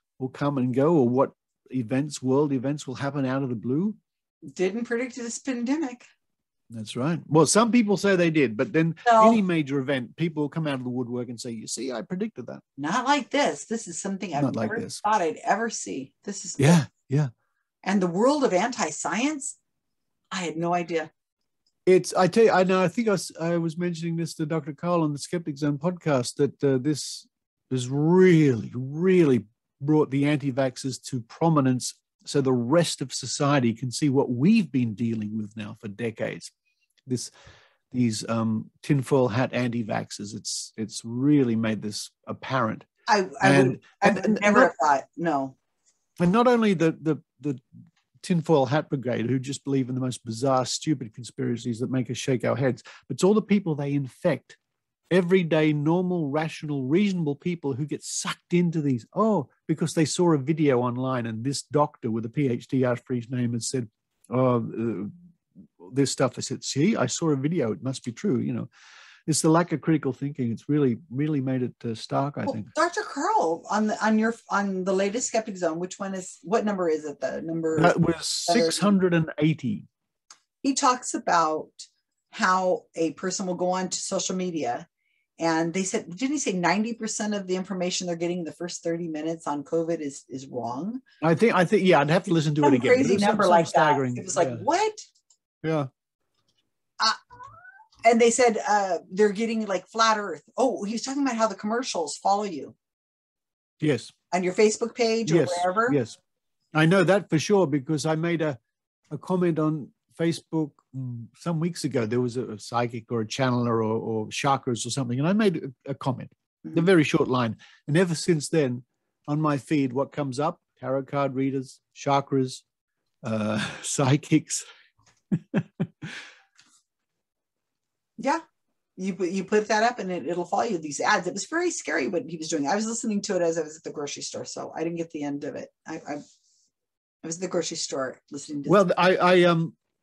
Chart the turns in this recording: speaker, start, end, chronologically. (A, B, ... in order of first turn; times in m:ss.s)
0:00.2-0:04.0 A
0:04.5-0:06.0 B
0:06.7-0:12.6 A
0:09.0-0:09.4 B
0:12.8-0:16.9 B
0:14.4-0:15.0 A
0:16.6-0:17.3 A
0:17.8-0:19.6 B
0:20.3-0:21.1 B
0:21.8-0:36.5 A
0:37.0-0:37.3 A
0:37.9-0:42.9 A
0:43.1-0:45.6 B
0:43.4-0:44.7 A
0:46.2-0:47.6 A
0:48.2-0:54.6 A
0:55.1-1:05.1 A
1:05.8-1:08.7 A
1:09.3-1:12.7 A
1:12.4-1:18.9 B
1:17.8-1:19.9 A
1:20.6-1:24.9 B
1:25.4-1:31.0 B
1:31.2-1:34.6 A
1:32.6-1:35.0 B
1:35.6-1:35.9 A
1:38.0-1:42.8 B
1:43.8-1:44.1 A
1:44.3-1:46.0 B
1:45.2-1:46.2 A
1:46.7-1:48.6 A
1:49.1-2:02.6 A
2:03.2-2:04.6 A
2:05.3-2:06.2 A
2:09.0-2:16.2 B
2:17.2-2:18.8 B
2:18.7-2:19.8 A